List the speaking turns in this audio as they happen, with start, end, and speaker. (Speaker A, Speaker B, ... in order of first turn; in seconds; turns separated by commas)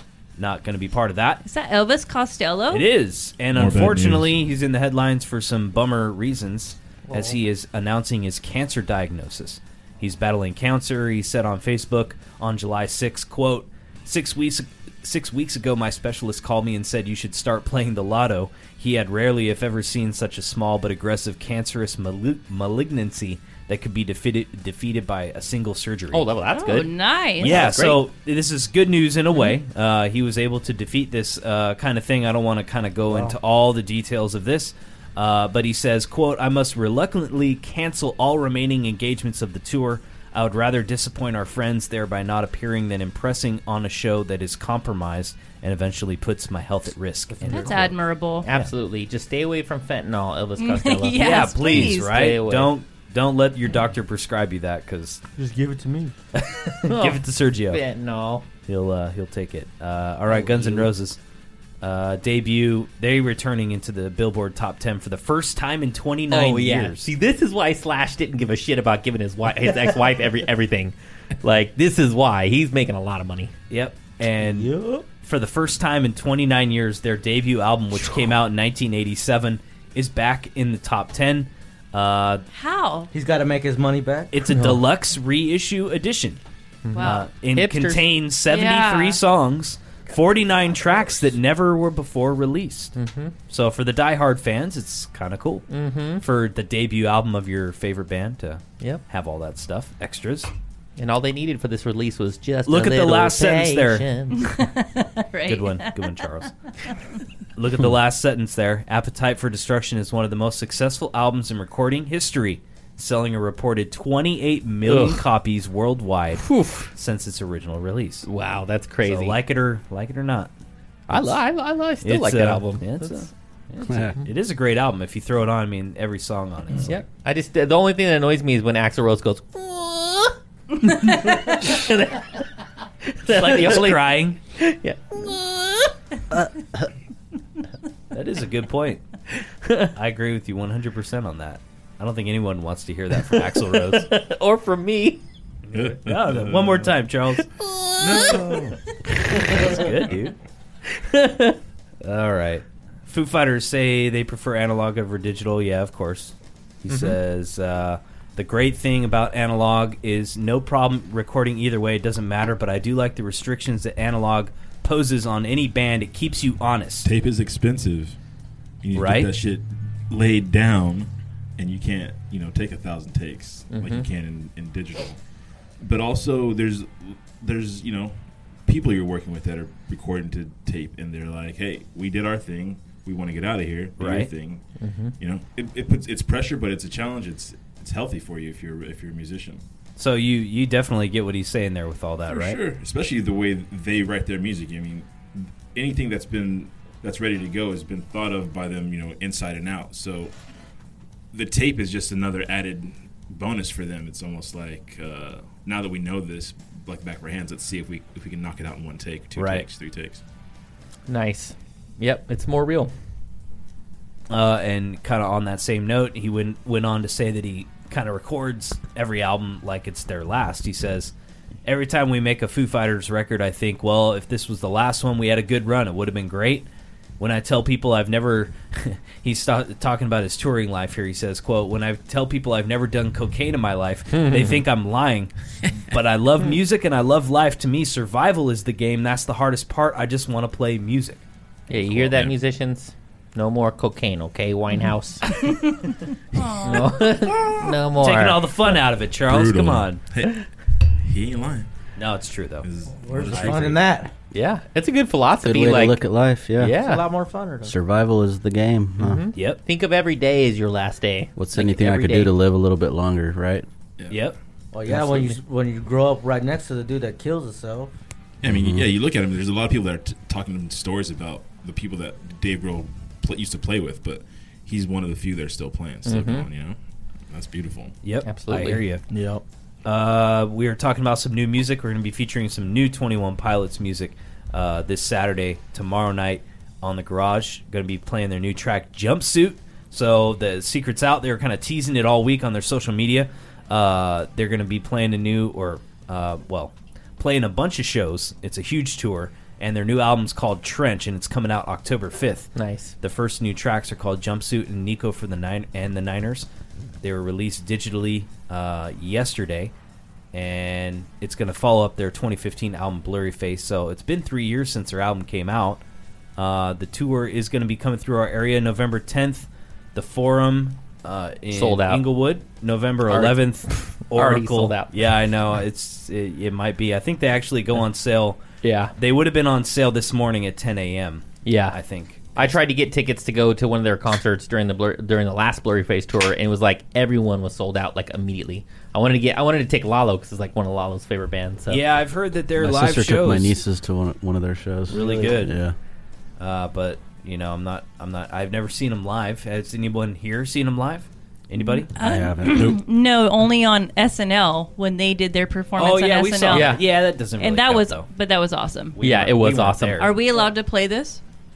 Speaker A: 0.4-1.4, Speaker B: 1.4-2.9, Speaker A: 2.7-26.3, Speaker C: 3.5-4.3, Speaker D: 7.1-7.4, Speaker E: 26.1-28.0, Speaker B: 26.5-27.7, Speaker A: 27.4-47.9, Speaker D: 33.1-33.4, Speaker D: 47.3-47.9, Speaker B: 47.5-48.5, Speaker E: 48.4-52.7, Speaker B: 50.6-52.1, Speaker A: 51.1-55.2, Speaker D: 55.4-56.1, Speaker A: 56.4-57.8, Speaker E: 56.8-58.4, Speaker A: 58.7-61.2, Speaker D: 60.3-60.8, Speaker A: 61.8-67.1, Speaker E: 66.3-73.5, Speaker A: 73.7-82.5, Speaker D: 74.4-75.0, Speaker B: 82.5-83.1, Speaker D: 83.1-84.4, Speaker A: 84.3-86.4, Speaker E: 84.5-84.8, Speaker E: 86.8-88.0, Speaker B: 86.9-87.3, Speaker A: 87.0-92.9, Speaker B: 88.5-89.2, Speaker E: 92.9-93.3, Speaker A: 93.5-100.5, Speaker E: 95.7-96.2, Speaker E: 101.0-104.5, Speaker A: 102.7-104.1, Speaker B: 104.3-106.1, Speaker A: 105.5-106.5, Speaker A: 107.5-118.3, Speaker E: 114.9-115.2, Speaker E: 116.4-116.9, Speaker E: 118.2-119.4, Speaker A: 119.0-120.5, Speaker E: 121.1-123.2, Speaker A: 122.0-127.0, Speaker F: 123.9-124.2, Speaker E: 126.8-132.5, Speaker E: 133.0-135.9, Speaker A: 133.3-134.4, Speaker A: 138.1-139.0, Speaker E: 139.3-139.9, Speaker A: 139.9-144.1, Speaker E: 143.7-145.2, Speaker C: 145.7-146.9, Speaker A: 145.7-147.5, Speaker E: 147.4-148.6, Speaker C: 148.0-148.8, Speaker E: 149.3-149.9, Speaker C: 149.3-149.7, Speaker A: 149.3-150.3, Speaker E: 150.9-151.6, Speaker A: 152.0-167.1, Speaker E: 156.9-157.2, Speaker C: 167.0-168.2, Speaker C: 168.8-175.2, Speaker A: 168.9-169.3, Speaker E: 173.7-174.1, Speaker C: 175.8-184.7, Speaker A: 184.0-184.3, Speaker E: 184.8-185.1, Speaker C: 185.2-189.6, Speaker A: 190.0-192.6, Speaker C: 192.3-200.4, Speaker C: 201.3-210.2, Speaker A: 209.4-209.7, Speaker E: 211.1-212.9, Speaker A: 214.3-221.1, Speaker A: 221.6-226.7, Speaker A: 227.2-241.2, Speaker E: 234.1-234.6, Speaker E: 241.7-245.3, Speaker C: 241.7-242.4, Speaker B: 245.5-246.8, Speaker C: 246.3-247.8, Speaker E: 246.6-248.4, Speaker A: 248.0-250.0, Speaker C: 249.2-250.4, Speaker C: 251.0-251.7, Speaker A: 252.0-252.7, Speaker C: 252.6-253.9, Speaker D: 252.9-254.1, Speaker A: 253.3-253.7, Speaker E: 254.3-256.0, Speaker F: 255.4-256.8, Speaker E: 256.6-257.0, Speaker D: 256.7-257.8, Speaker F: 257.6-259.2, Speaker E: 259.0-262.3, Speaker A: 259.4-259.6, Speaker F: 261.4-263.6, Speaker C: 264.0-264.3, Speaker A: 264.1-264.4, Speaker D: 264.7-267.9, Speaker E: 264.9-265.4, Speaker C: 268.4-276.8, Speaker F: 268.4-268.9, Speaker E: 276.0-276.5, Speaker C: 277.3-278.0, Speaker A: 278.0-279.1, Speaker E: 278.2-278.8, Speaker D: 279.1-279.4, Speaker A: 279.9-306.5, Speaker E: 302.6-302.9, Speaker A: 307.0-309.7, Speaker A: 310.3-315.8, Speaker A: 316.4-328.4, Speaker E: 321.5-322.0, Speaker E: 323.1-324.9, Speaker E: 328.6-328.9, Speaker A: 328.9-332.5, Speaker E: 331.4-331.8, Speaker E: 332.4-341.8, Speaker A: 341.7-343.6, Speaker F: 342.6-345.8, Speaker A: 344.9-345.5, Speaker A: 346.4-351.9, Speaker B: 351.6-356.8, Speaker F: 351.9-352.8, Speaker A: 355.8-358.1, Speaker E: 356.5-356.8, Speaker B: 357.4-359.0, Speaker A: 358.9-360.3, Speaker E: 359.0-360.1, Speaker B: 360.0-361.2